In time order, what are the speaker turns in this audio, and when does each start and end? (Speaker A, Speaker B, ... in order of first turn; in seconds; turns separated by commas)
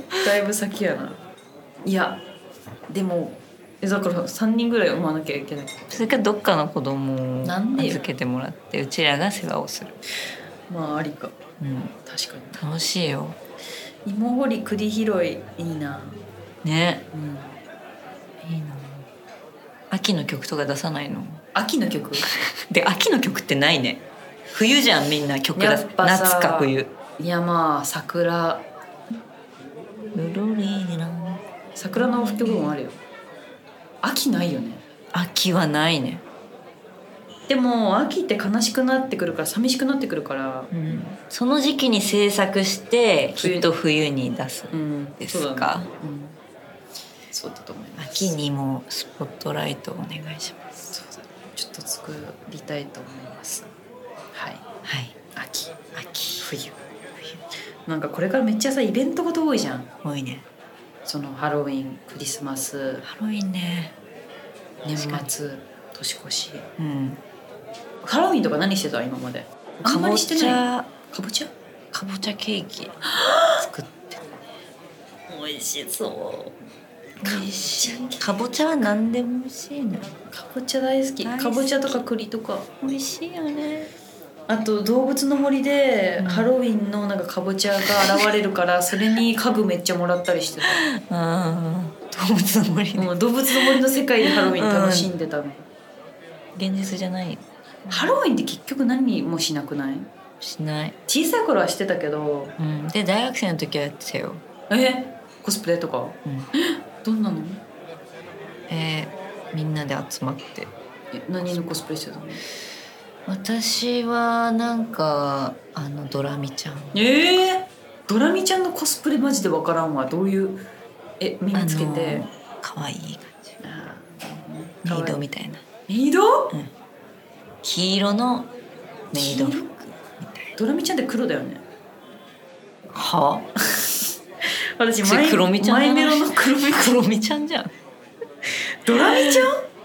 Speaker A: 0.2-1.2, Speaker A: 1.8-2.2, Speaker A: 2.9-6.2, Speaker B: 5.9-10.0, Speaker A: 7.4-8.0, Speaker A: 10.7-11.3, Speaker B: 11.6-11.9, Speaker A: 12.1-12.6, Speaker B: 12.5-13.4, Speaker A: 14.1-16.2, Speaker B: 16.6-17.0, Speaker A: 17.1-17.6, Speaker B: 18.4-19.1, Speaker B: 19.9-21.4, Speaker A: 21.5-22.2, Speaker B: 22.7-26.9, Speaker A: 25.5-28.7, Speaker B: 30.1-32.8, Speaker A: 31.8-33.0, Speaker A: 34.0-34.8, Speaker B: 35.1-36.2, Speaker A: 37.5-40.7, Speaker B: 40.7-45.9, Speaker A: 43.4-43.7, Speaker A: 44.7-46.4, Speaker A: 47.3-48.4, Speaker B: 48.0-50.8, Speaker A: 50.9-53.7, Speaker A: 54.3-54.6, Speaker B: 54.8-55.1, Speaker A: 55.3-55.7, Speaker B: 55.9-56.5, Speaker A: 56.4-56.8, Speaker A: 57.9-59.9, Speaker B: 60.0-60.4, Speaker A: 61.0-63.0, Speaker B: 63.0-63.9, Speaker B: 64.8-65.2, Speaker A: 64.9-66.7, Speaker B: 66.8-67.2, Speaker A: 68.0-71.5, Speaker B: 69.8-70.9, Speaker B: 71.9-74.3, Speaker B: 75.3-76.5, Speaker B: 77.2-80.2, Speaker A: 77.2-78.4, Speaker A: 80.3-82.7, Speaker B: 81.2-82.0, Speaker B: 82.8-83.9, Speaker A: 84.5-90.8, Speaker B: 86.2-86.5, Speaker B: 90.9-95.1, Speaker A: 93.0-95.7, Speaker B: 96.5-98.2, Speaker A: 97.9-100.1, Speaker B: 100.4-100.9, Speaker A: 101.1-102.5, Speaker B: 102.6-104.4, Speaker A: 104.7-107.6, Speaker B: 108.7-110.7, Speaker A: 111.1-112.4, Speaker B: 113.2-117.0, Speaker A: 116.9-120.6, Speaker A: 121.2-122.2, Speaker B: 121.5-123.5, Speaker A: 123.6-125.2, Speaker B: 124.8-125.6, Speaker A: 125.9-126.6, Speaker B: 127.6-128.5, Speaker B: 129.1-130.5, Speaker A: 129.1-129.7, Speaker A: 130.6-131.6, Speaker B: 132.9-133.5, Speaker A: 134.8-136.9, Speaker B: 135.0-137.7, Speaker A: 138.8-139.6, Speaker B: 138.9-139.4